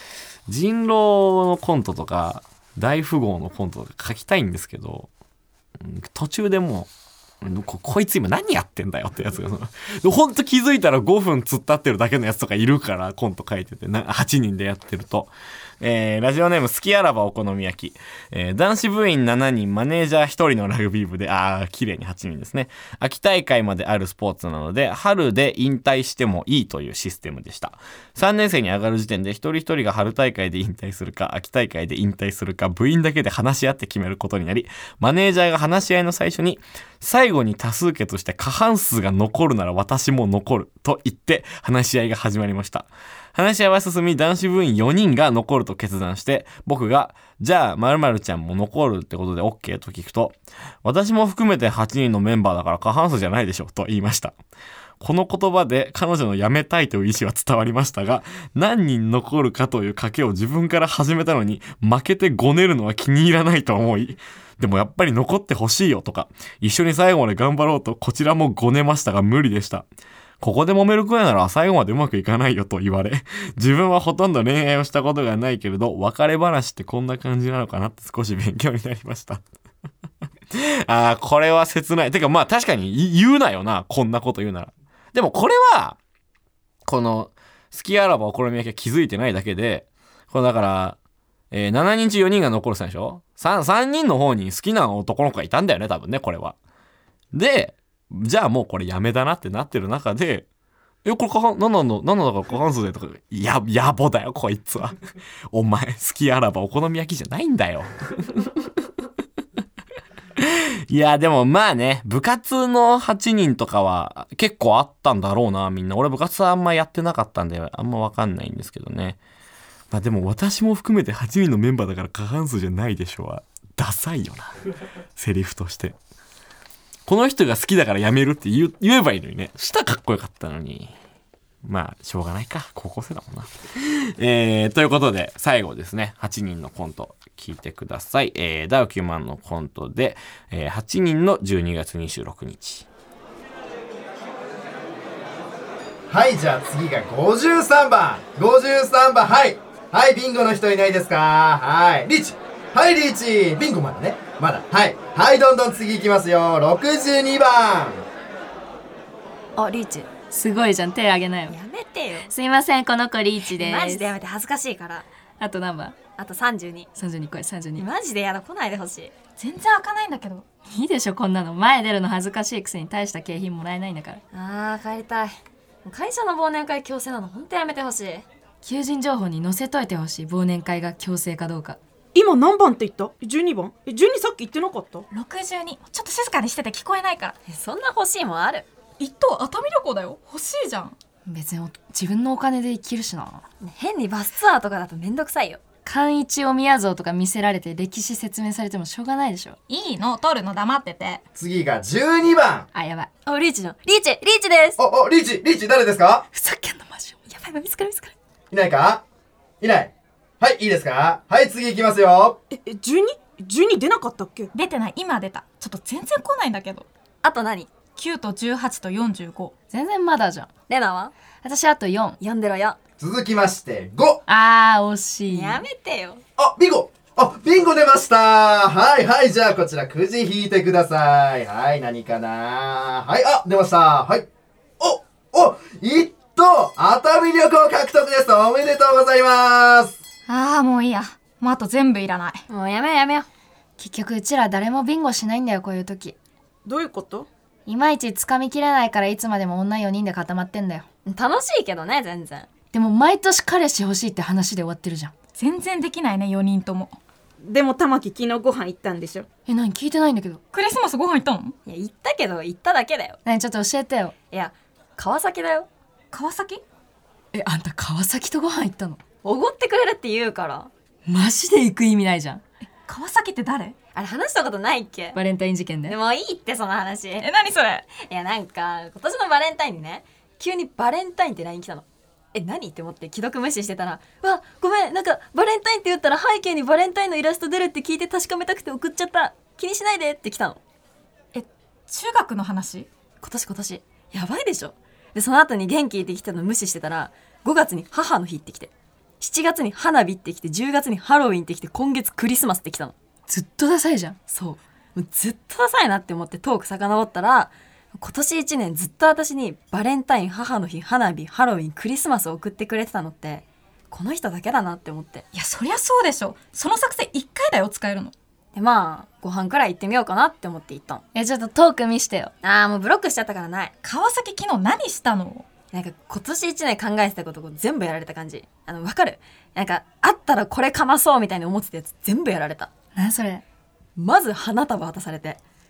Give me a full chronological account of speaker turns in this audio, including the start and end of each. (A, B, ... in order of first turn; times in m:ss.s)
0:00.5-0:05.1 A
0:05.8-0:06.9 A
0:07.4-0:54.4 A
0:55.0-1:09.8 A
1:10.4-1:19.4 A
1:20.5-1:26.0 A
1:26.8-1:31.0 A
1:31.5-1:36.6 A
1:37.3-1:40.5 A
1:41.0-1:45.0 A
1:45.5-1:48.6 A
1:50.4-1:59.2 A
1:59.9-2:04.6 A
2:05.2-2:06.0 A
2:07.1-2:10.9 A
2:11.6-2:22.9 A
2:26.1-2:38.0 B
2:39.6-2:40.1 C
2:40.2-2:41.6 D
2:41.5-2:42.3 C
2:42.3-2:44.1 D
2:43.5-2:45.1 C
2:45.4-2:46.1 D
2:46.2-2:46.9 C
2:47.0-2:47.9 D
2:47.8-2:49.1 C
2:49.4-2:50.5 E
2:50.7-2:54.2 D
2:54.3-2:58.2 C
2:58.6-3:01.8 D
3:02.1-3:05.1 F
3:05.1-3:07.4 E
3:07.5-3:08.7 C
3:09.0-3:11.0 E
3:11.3-3:13.4 D
3:13.6-3:15.6 C
3:15.8-3:19.6 D
3:19.7-3:21.2 E
3:21.4-3:22.7 B
3:22.7-3:23.1 D
3:23.3-3:24.8 C
3:24.8-3:26.3 B
3:26.3-3:27.2 D
3:27.3-3:28.1 C
3:28.5-3:29.0 B
3:29.6-3:32.4 B
3:32.5-3:34.5 F
3:34.5-3:36.9 E
3:37.2-3:37.7 C
3:38.0-3:39.5 E
3:39.7-3:40.5 D
3:40.7-3:41.1 C
3:41.4-3:42.2 D
3:42.2-3:42.8 C
3:43.0-3:44.2 B
3:44.3-3:45.6 D
3:45.3-3:46.2 C
3:46.4-3:54.3 B
3:54.8-4:00.0 B
4:00.3-4:02.5 E
4:02.5-4:03.3 C
4:03.8-4:06.2 D
4:06.6-4:07.3 F
4:07.7-4:10.9 D
4:11.1-4:12.5 C
4:12.7-4:15.1 D
4:15.4-4:17.0 E
4:17.4-4:19.3 F
4:19.5-4:20.4 D
4:20.5-4:21.6 E
4:21.7-4:23.2 C
4:23.2-4:24.2 D
4:24.3-4:25.7 C
4:26.1-4:26.6 E
4:27.3-4:29.0 D
4:29.2-4:30.7 C
4:31.1-4:32.4 D
4:32.9-4:33.8 E
4:34.0-4:35.2 C
4:35.1-4:36.0 D
4:35.9-4:37.3 C
4:37.2-4:37.9 E
4:37.9-4:50.6 C
4:51.3-4:52.9 E
4:53.2-5:03.0 C
5:03.3-5:04.2 D
5:04.3-5:15.2 C
5:15.3-5:18.1 E
5:18.5-5:21.0 C
5:21.1-5:22.3 D
5:22.4-5:23.8 C
5:23.8-5:25.5 E
5:25.7-5:32.7 C
5:33.0-5:33.4 D
5:34.0-5:35.4 C